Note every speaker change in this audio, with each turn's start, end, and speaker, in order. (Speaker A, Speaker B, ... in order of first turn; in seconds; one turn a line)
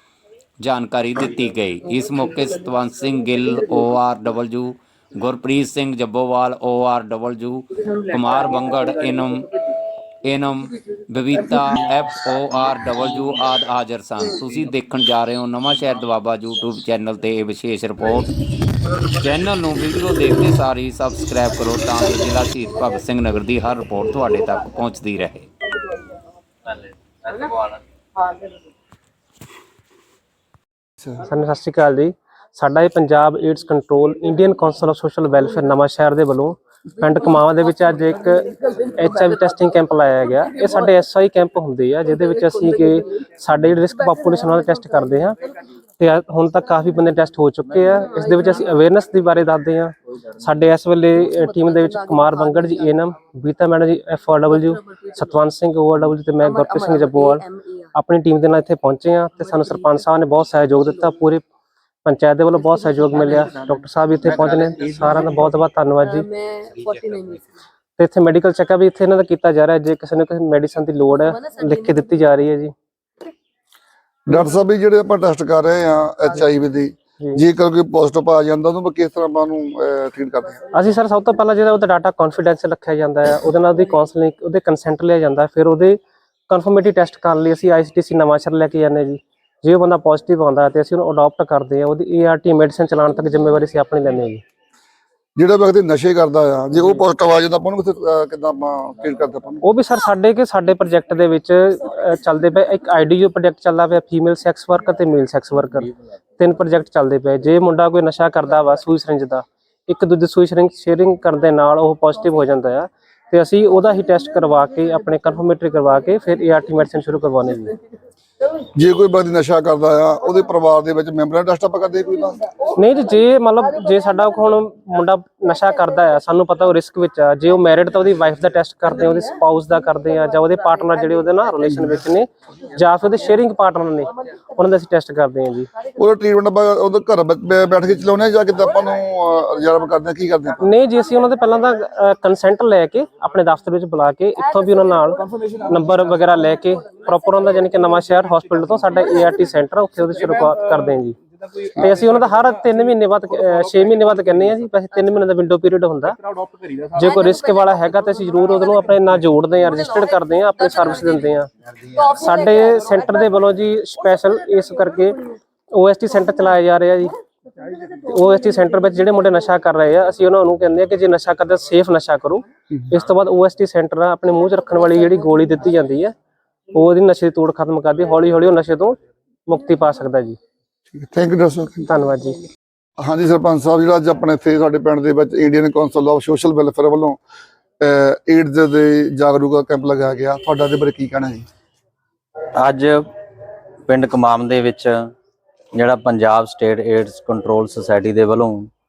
Speaker A: 0.6-9.5
Speaker A: 10.2-18.4
Speaker A: 18.9-25.5
Speaker B: 27.4-27.7
Speaker C: 31.2-45.4
Speaker C: 46.0-57.4
Speaker D: 56.7-57.8
Speaker C: 57.9-61.4
Speaker C: 62.0-66.2
Speaker D: 66.2-67.5
Speaker C: 68.0-72.7
Speaker E: 74.3-80.6
Speaker C: 80.7-94.4
Speaker E: 95.4-99.6
Speaker C: 99.6-117.7
Speaker E: 118.7-122.4
Speaker C: 122.7-135.7
Speaker E: 135.9-140.6
Speaker C: 140.6-151.2
Speaker C: 151.8-156.2
Speaker C: 156.9-167.2
Speaker C: 167.9-176.1
Speaker C: 176.7-180.4
Speaker E: 180.9-181.9
Speaker C: 181.9-182.4
Speaker E: 183.0-187.2
Speaker E: 187.8-191.4
Speaker B: 192.6-193.1
Speaker B: 193.9-195.0
Speaker B: 195.7-198.7